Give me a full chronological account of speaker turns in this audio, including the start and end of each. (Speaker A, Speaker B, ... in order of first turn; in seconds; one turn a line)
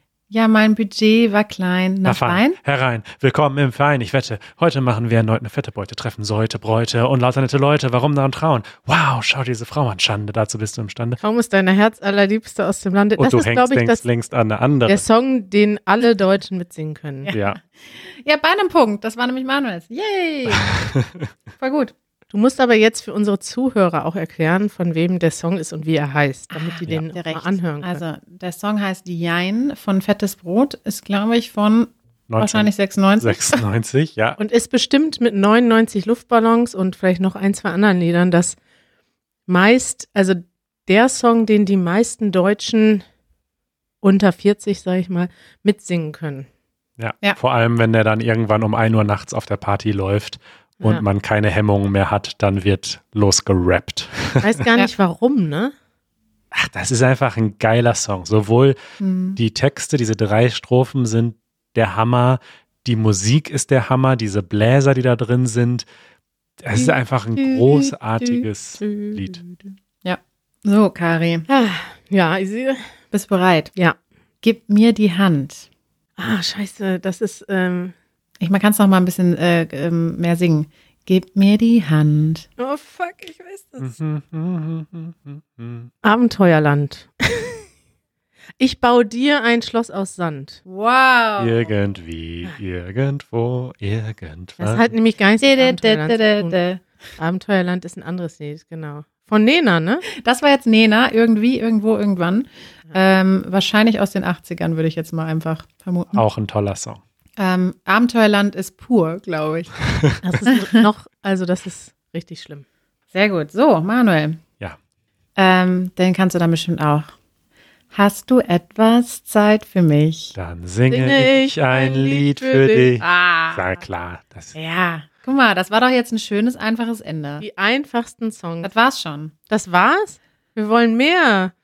Speaker A: 0.3-2.6
Speaker B: 2.0-11.2
Speaker C: 11.2-14.0
Speaker B: 13.2-15.0
Speaker C: 14.9-17.3
Speaker A: 17.3-20.9
Speaker B: 17.3-17.6
Speaker B: 20.5-21.0
Speaker A: 21.6-21.9
Speaker C: 22.3-28.0
Speaker A: 26.5-33.6
Speaker B: 32.3-34.4
Speaker C: 34.4-38.6
Speaker C: 39.5-43.0
Speaker C: 44.0-46.5
Speaker B: 47.0-54.5
Speaker C: 54.4-55.7
Speaker B: 56.5-58.8
Speaker A: 59.0-59.4
Speaker B: 59.4-65.8
Speaker B: 66.6-69.4
Speaker A: 68.8-69.2
Speaker A: 70.0-71.5
Speaker C: 71.5-72.9
Speaker A: 73.1-73.7
Speaker A: 74.4-75.7
Speaker C: 76.2-77.9
Speaker A: 78.4-82.5
Speaker C: 82.6-83.9
Speaker B: 83.8-85.9
Speaker C: 86.0-87.7
Speaker C: 88.6-90.6
Speaker A: 90.7-91.7
Speaker B: 91.4-94.9
Speaker C: 94.6-96.5
Speaker A: 95.4-96.8
Speaker C: 97.2-100.0
Speaker A: 100.1-106.2
Speaker B: 106.1-107.0
Speaker A: 107.4-109.8
Speaker C: 110.2-112.6
Speaker A: 110.5-110.8
Speaker A: 113.1-114.4
Speaker A: 115.3-117.1
Speaker A: 117.9-120.3
Speaker B: 120.3-124.5
Speaker C: 120.9-122.9
Speaker A: 123.0-123.8
Speaker A: 124.5-127.4
Speaker C: 127.4-128.7
Speaker A: 128.6-129.3
Speaker C: 129.5-131.5